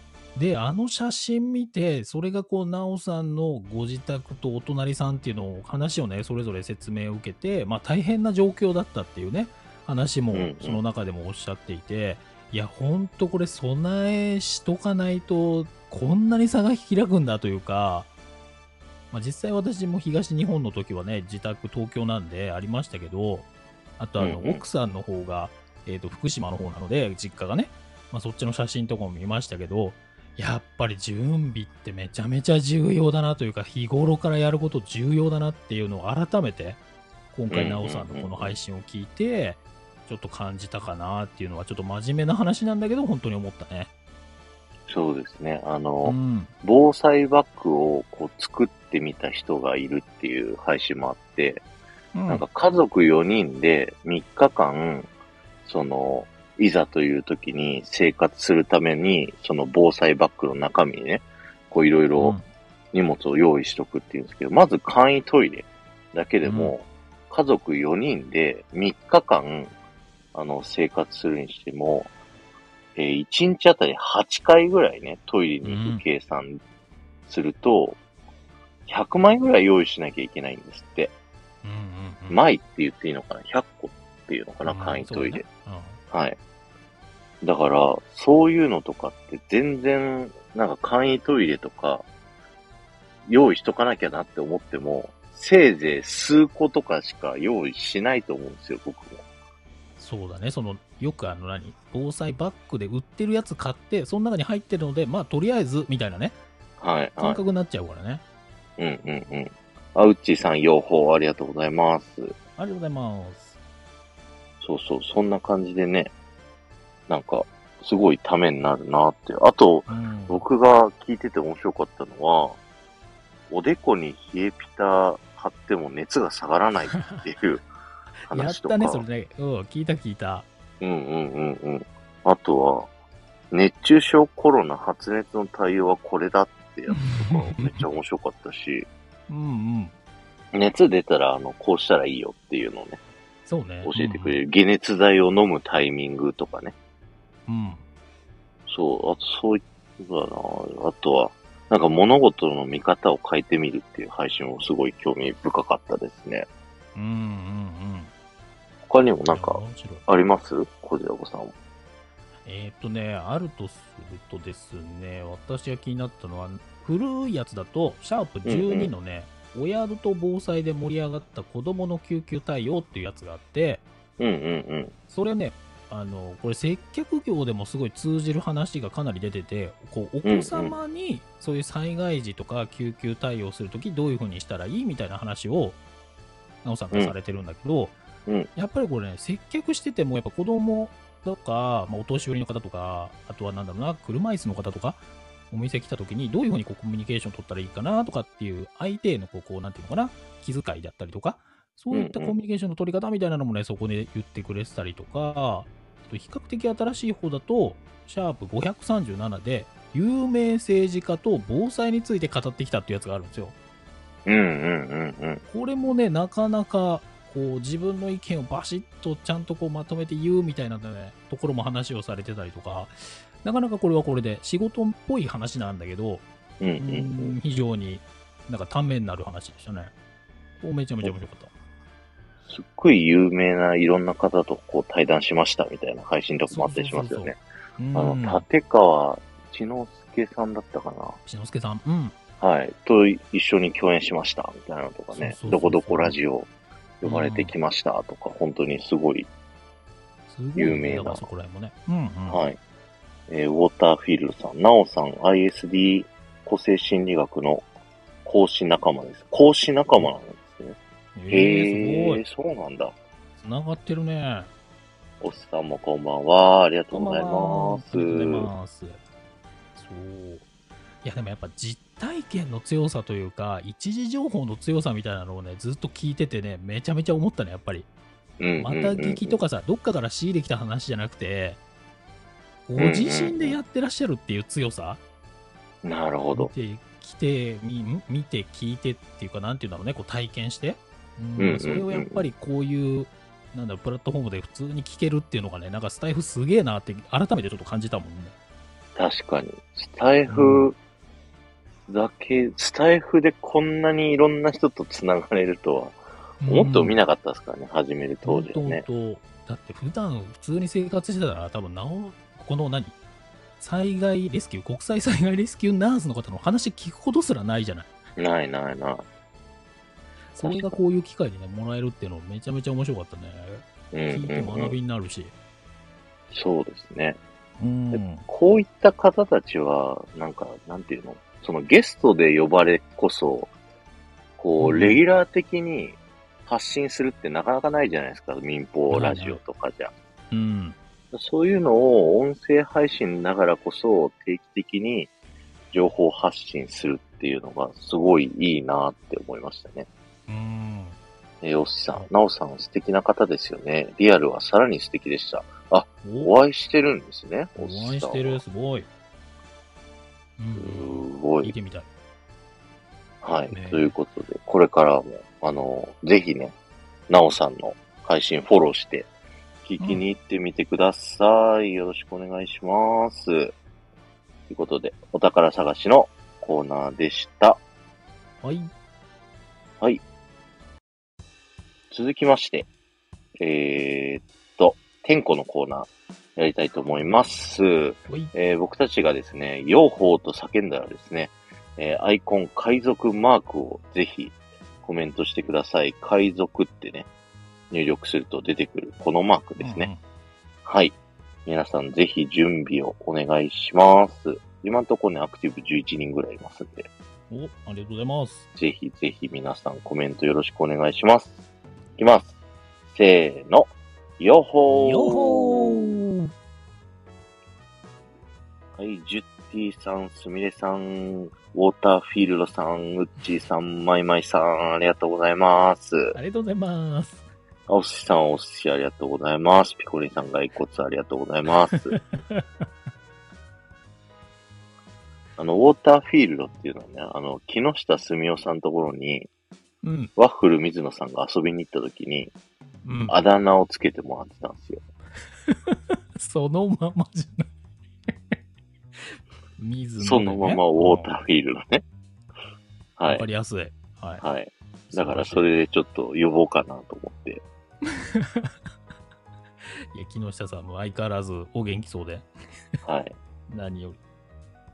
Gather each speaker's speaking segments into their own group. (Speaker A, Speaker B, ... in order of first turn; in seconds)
Speaker A: 0.3-18.1, 19.1-23.5, 24.0-36.8, 37.3-43.9, 46.0-46.5, 52.1-52.4, 62.2-62.5, 66.4-66.7, 75.6-76.0, 81.6-82.4, 84.6-86.0, 100.0-106.4, 107.2-108.2, 112.6-113.6, 119.9-120.5, 126.9-127.3, 128.3-130.5, 136.9-137.8, 139.3-139.9, 143.4-144.4, 147.5-147.8, 156.9-158.1, 159.3-160.1, 162.4-173.8, 175.1-185.8, 186.6-188.0, 188.6-213.5, 215.4-226.2, 226.8-229.9, 230.6-231.5, 236.5-238.4, 241.2-242.2, 245.1-246.2, 247.0-247.5, 250.3-252.4, 261.1-262.2, 263.4-264.5, 266.9-269.0, 269.7-270.4, 271.0-277.9, 278.6-281.6, 282.6-285.0, 286.3-298.3, 300.3-300.7, 306.4-307.0, 308.2-313.0, 313.6-317.9, 320.3-325.3, 327.6-328.2, 334.6-335.0, 338.9-339.4, 340.3-340.8, 350.3-351.0, 356.0-356.3, 357.6-358.9, 360.4-361.9, 363.5-363.9, 378.4-378.7, 399.6-400.0, 407.3-408.5, 414.7-416.3, 426.1-427.2, 431.9-432.6, 439.8-440.1, 442.8-443.1, 445.5-447.5, 449.6-451.1, 453.1-454.2, 454.9-455.4, 457.8-458.5, 459.9-462.3, 463.5-464.0
Speaker B: 10.3-10.8, 24.2-24.6, 37.5-38.5, 44.9-51.6, 52.3-55.1, 55.6-62.4, 62.9-69.7, 70.3-72.1, 73.0-76.6, 77.3-78.0, 78.9-81.1, 82.3-85.4, 86.1-86.4, 87.4-92.0, 93.3-99.2, 106.8-107.4, 108.8-112.3, 114.6-116.1, 117.1-122.6, 123.5-127.6, 128.3-129.0, 130.8-132.9, 133.5-138.9, 140.5-143.0, 143.8-146.7, 148.7-156.5, 158.9-161.5, 168.4-168.9, 174.2-174.9, 180.2-180.8, 201.9-202.3, 214.2-215.4, 226.6-227.4, 232.5-237.4, 237.9-241.2, 242.4-246.5, 247.0-249.3, 250.6-251.2, 252.3-252.6, 253.3-257.6, 258.2-260.8, 261.3-262.9, 265.2-268.5, 278.4-279.4, 282.8-283.6, 285.8-286.5, 291.4-292.2, 298.9-300.8, 301.9-308.8, 318.2-319.0, 320.4-320.8, 323.9-324.8, 326.3-327.2, 327.9-333.5, 334.4-339.9, 341.1-345.1, 345.7-349.9, 351.4-358.4, 360.6-361.5, 363.2-366.5, 367.1-369.1, 369.6-373.5, 374.5-377.6, 381.9-382.7, 383.4-397.1, 397.7-399.9, 400.6-406.9, 408.6-411.3, 412.0-412.3, 412.9-416.0, 418.8-426.2, 427.7-432.0, 435.4-439.3, 440.1-442.3, 443.1-444.8, 450.0-451.8, 453.0-453.2, 454.2-457.4, 462.8-463.1